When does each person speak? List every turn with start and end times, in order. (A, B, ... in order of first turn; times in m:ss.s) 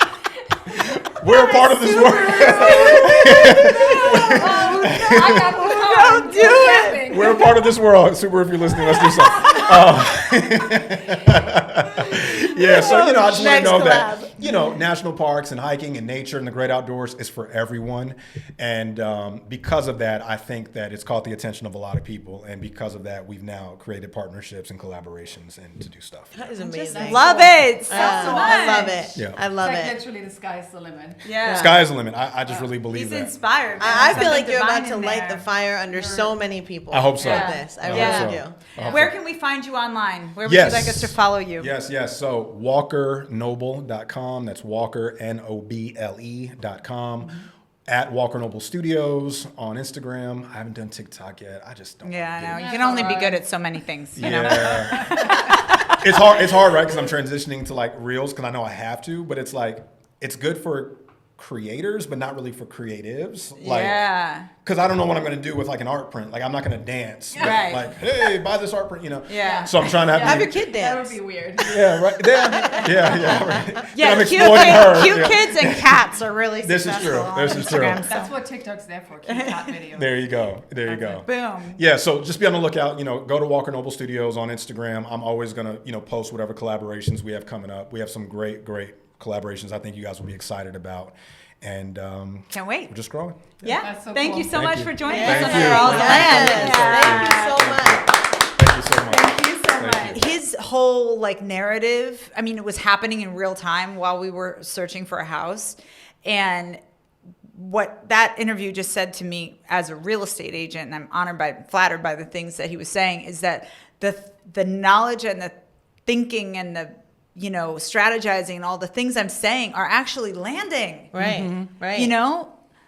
0:00.7-0:05.7 A
0:01.2-0:07.6 B
0:02.8-0:07.0 C
0:04.3-0:04.9 D
0:05.9-0:06.8 D
0:06.4-0:26.4 A
0:08.9-0:09.8 B
0:12.6-0:14.3 C
0:26.3-0:27.3 C
0:26.5-0:31.2 B
0:26.9-0:28.9 D
0:27.9-0:30.0 C
0:31.2-0:31.8 D
0:31.4-0:31.7 C
0:31.4-0:33.3 A
0:32.9-0:35.5 D
0:33.8-0:38.6 C
0:34.0-0:34.3 A
0:35.9-0:36.4 B
0:36.9-0:39.1 A
0:37.2-0:41.7 D
0:37.2-0:38.0 B
0:38.8-0:39.0 B
0:40.4-0:53.1 A
0:52.0-0:56.1 D
0:52.5-0:53.4 B
0:54.2-0:55.2 A
0:54.5-0:55.2 B
0:56.0-1:04.0 A
1:03.6-1:04.5 D
1:04.6-1:10.5 A
1:07.4-1:07.6 B
1:07.4-1:07.9 D
1:09.3-1:09.7 D
1:09.4-1:13.5 B
1:10.1-1:11.8 C
1:11.6-1:16.0 A
1:12.8-1:14.7 C
1:13.9-1:16.3 D
1:16.0-1:18.0 C
1:16.6-1:18.0 A
1:16.9-1:18.3 D
1:17.8-1:20.1 B
1:19.2-1:19.7 D
1:19.9-1:33.5 A
1:20.8-1:21.8 D
1:32.5-1:32.9 D
1:33.6-1:37.6 D
1:33.6-1:34.6 B
1:34.5-1:40.2 A
1:35.0-1:38.1 C
1:35.1-1:36.4 B
1:39.1-1:46.8 D
1:39.4-1:40.0 B
1:47.5-1:55.5 D
1:56.0-2:01.1 D
2:01.1-2:02.1 C
2:01.2-2:01.7 B
2:01.9-2:02.5 D